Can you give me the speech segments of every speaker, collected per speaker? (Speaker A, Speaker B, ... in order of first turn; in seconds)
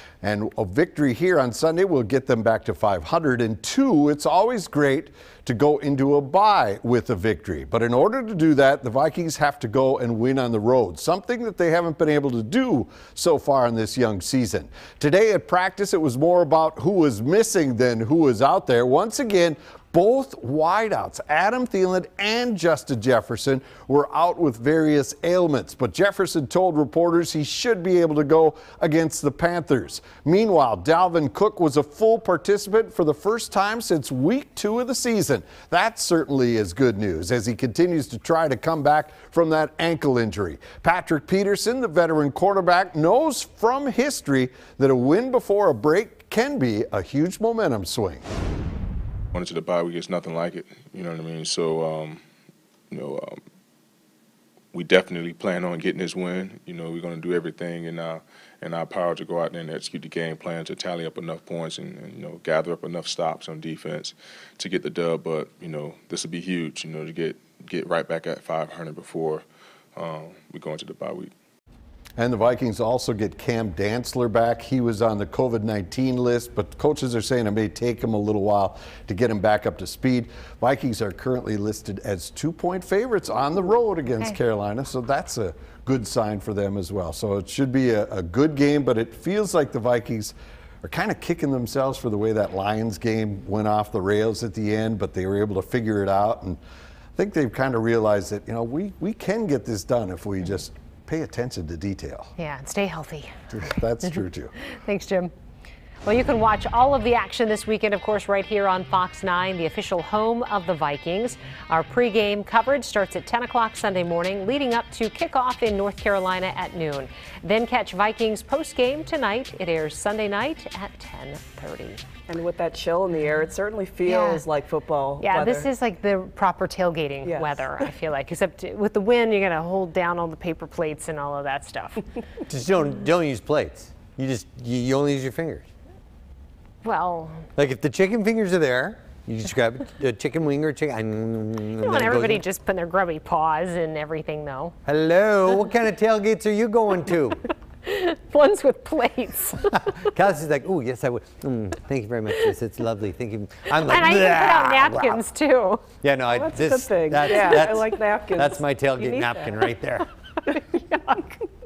Speaker A: 0.2-48.2, 72.2-96.6, 97.2-102.3, 103.5-104.5
Speaker B: 49.3-52.2, 52.9-53.4, 54.7-69.4, 70.0-71.3
Speaker C: 102.4-103.5, 104.6-105.3, 106.0-122.0, 124.0-124.4, 125.2-132.1, 136.8-137.5, 141.8-144.7, 147.8-149.8, 153.8-155.8, 157.3-157.7, 160.9-161.2
Speaker D: 122.3-125.7, 127.2-127.7, 156.3-159.4
Speaker E: 132.5-135.7, 137.6-142.4, 144.8-147.4, 150.0-155.2, 156.0-160.1